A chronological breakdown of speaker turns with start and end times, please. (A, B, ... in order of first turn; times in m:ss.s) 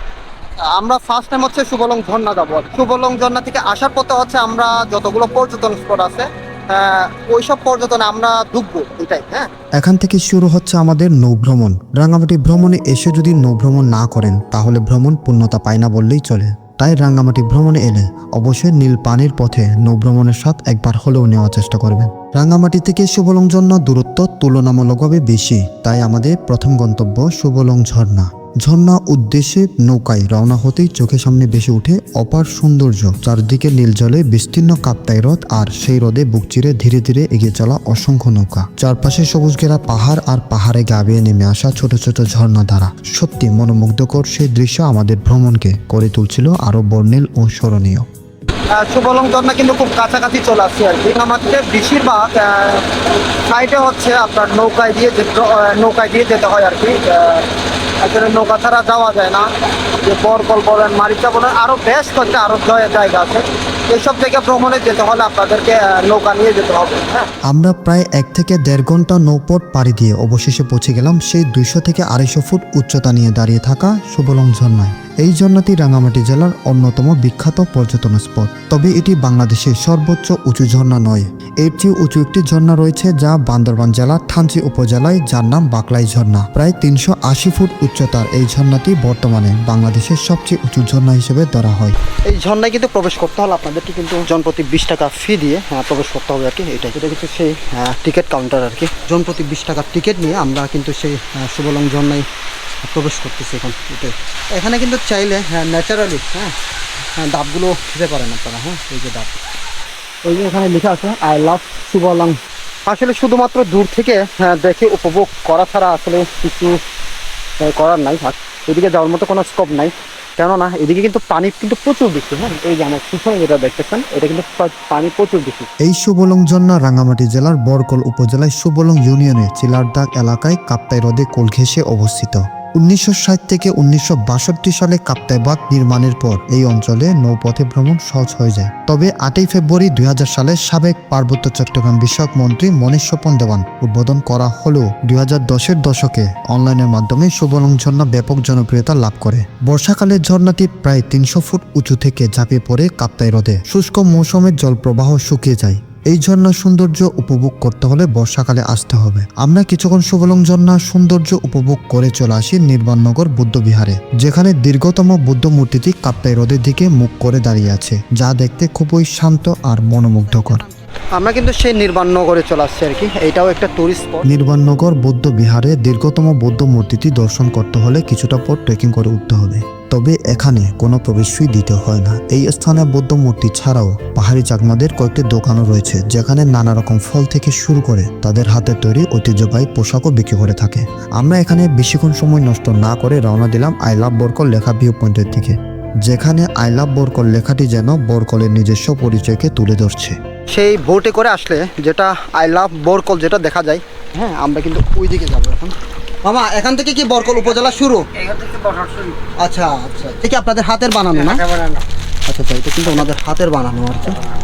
0:00.6-0:09.5 A
0:09.8-0:48.0 B
0:48.7-0:52.9 A
0:53.4-0:57.4 A
0:58.0-0:59.4 A
1:00.0-1:07.3 A
1:07.5-1:32.0 B
1:32.3-1:42.2 A
1:42.8-1:46.5 A
1:47.2-1:49.4 A
1:50.2-1:56.8 A
1:57.6-2:05.7 A
2:05.8-2:50.6 B
2:51.2-2:54.3 A
2:54.2-3:20.2 B
3:20.5-3:25.7 A
3:26.2-3:34.2 A